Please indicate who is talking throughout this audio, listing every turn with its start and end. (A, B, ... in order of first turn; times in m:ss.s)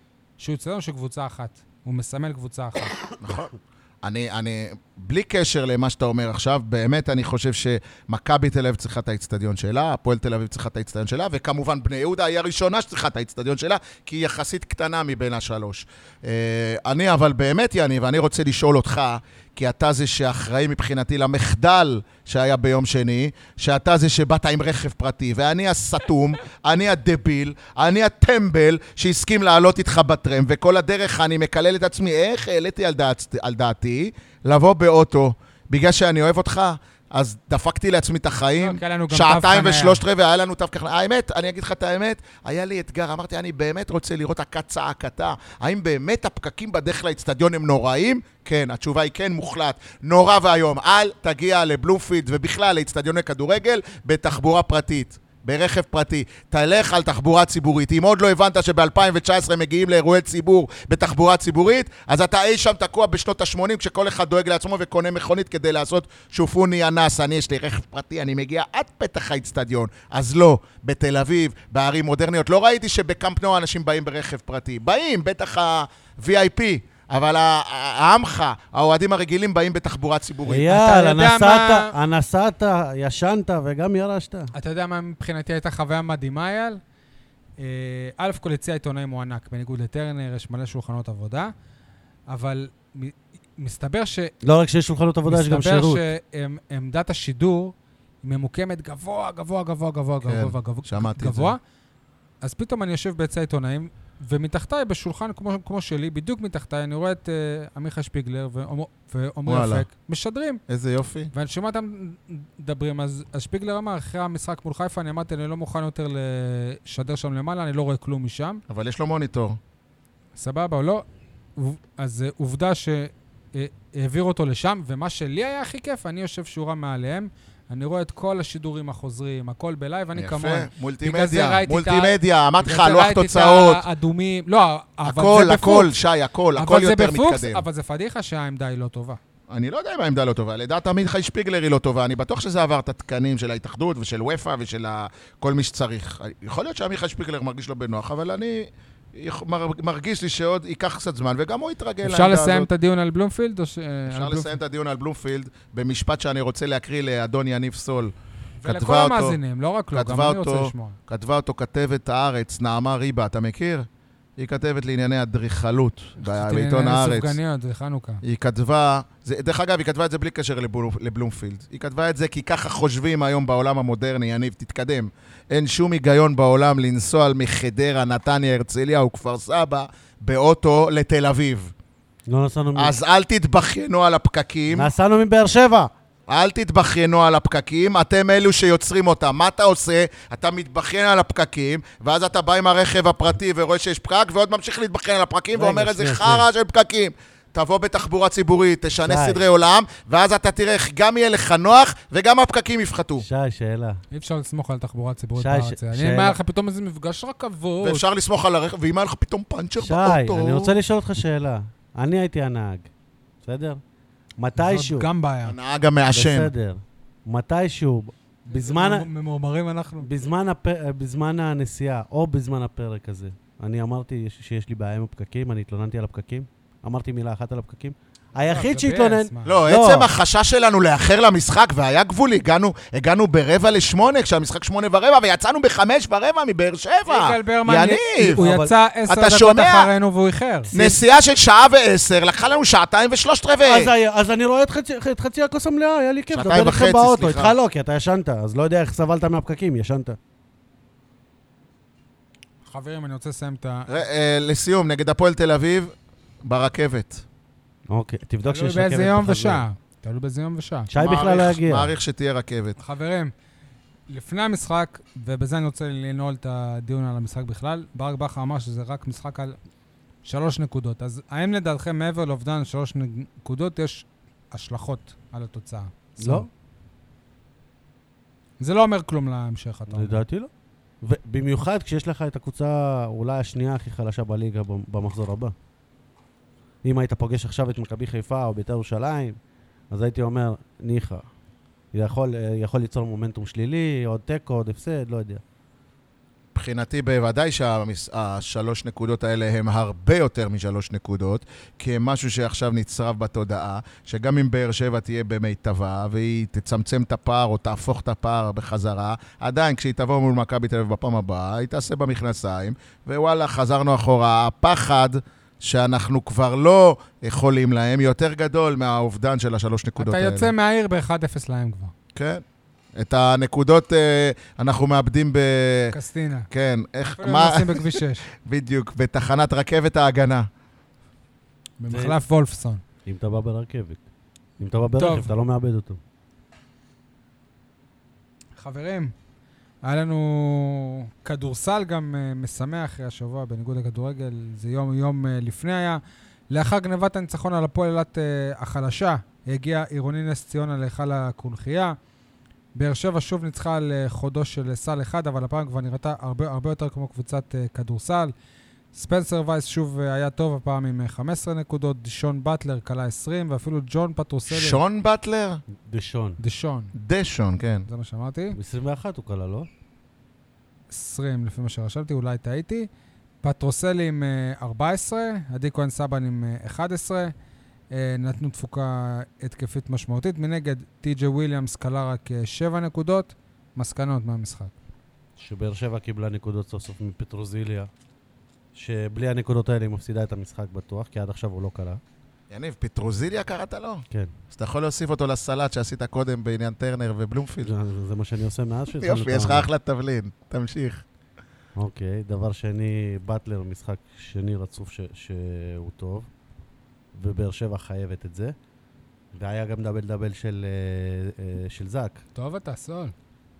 0:00.4-0:02.9 A
0:03.2-1:20.7 B
0:38.6-0:40.0 A
1:20.4-1:24.5 C
1:20.7-1:21.9 A
1:24.5-1:26.8 A
1:27.6-1:31.5 A
1:32.3-1:34.3 A
1:34.4-1:36.0 C
1:35.3-1:41.6 A
1:40.2-1:41.5 B
1:42.4-1:50.6 A
1:49.5-1:49.9 B
1:50.7-1:51.3 B
1:51.3-1:58.6 A
1:58.7-1:59.6 B
2:00.4-2:01.0 A
2:01.6-2:15.9 A
2:10.2-2:13.8 B
2:15.0-2:17.6 B
2:16.6-2:19.2 A
2:19.5-2:32.7 B
2:32.0-2:34.6 A
2:34.1-2:38.1 B
2:38.6-2:41.0 A
2:38.6-2:39.4 B
2:39.9-2:47.4 B
2:46.2-2:48.2 A
2:48.2-3:01.7 B
3:02.3-3:03.0 C
3:02.8-3:04.9 B
3:04.7-3:05.9 C
3:06.3-3:23.2 B
3:15.5-3:16.5 C
3:19.0-3:19.4 C
3:23.2-3:24.0 C
3:24.1-3:28.0 A
3:25.4-3:26.4 C
3:27.8-3:30.7 B
3:29.8-3:32.9 C
3:33.4-3:33.8 C
3:34.4-3:35.1 C
3:34.6-3:35.5 A
3:35.4-3:36.5 B
3:36.1-3:39.1 C
3:38.5-3:40.1 A
3:40.0-3:50.1 C
3:48.5-3:49.6 A
3:49.4-3:58.4 B
3:57.1-4:00.7 A
3:58.3-3:58.7 C
3:59.1-3:59.9 B
4:00.7-4:01.0 C
4:00.7-4:03.9 B
4:03.6-4:10.2 C
4:06.3-4:07.5 B
4:12.6-4:13.9 A
4:13.9-4:15.9 B
4:16.4-4:17.2 B
4:17.9-4:19.6 C
4:18.5-4:20.9 A
4:20.9-4:21.9 C
4:21.0-4:22.8 B
4:22.8-4:23.3 A
4:24.1-4:29.6 A
4:30.2-4:36.5 A
4:36.2-4:36.5 C
4:38.6-4:40.2 A
4:39.9-4:40.5 C
4:41.0-4:45.5 C
4:46.8-4:49.4 C
4:49.9-4:51.3 C
4:51.9-4:55.4 C
4:56.5-5:20.5 B
5:20.0-5:21.9 A
5:22.1-5:22.4 B
5:23.0-5:26.0 B
5:25.9-5:26.5 A
5:26.5-5:30.5 B
5:27.2-5:28.2 A
5:31.8-5:32.8 A
5:31.9-5:32.2 C
5:33.0-5:34.0 C
5:34.6-5:36.0 C
5:35.0-5:35.3 A
5:38.6-5:39.1 A
5:39.8-5:52.0 A
5:52.7-5:58.3 A
5:58.9-6:04.8 A
6:04.5-6:05.6 B
6:05.8-6:06.4 C
6:06.4-6:06.9 A
6:06.9-6:07.9 B
6:07.9-6:08.6 A
6:08.5-6:09.7 C
6:10.9-6:12.9 A
6:13.4-6:17.3 A
6:17.9-6:24.7 A
6:25.4-6:27.9 C
6:28.7-6:32.0 C
6:32.5-6:37.7 B
6:37.6-6:39.7 C
6:39.0-6:41.0 B
6:41.8-6:46.3 C
6:47.1-6:48.5 C
6:49.3-6:52.2 C
6:52.4-6:53.1 A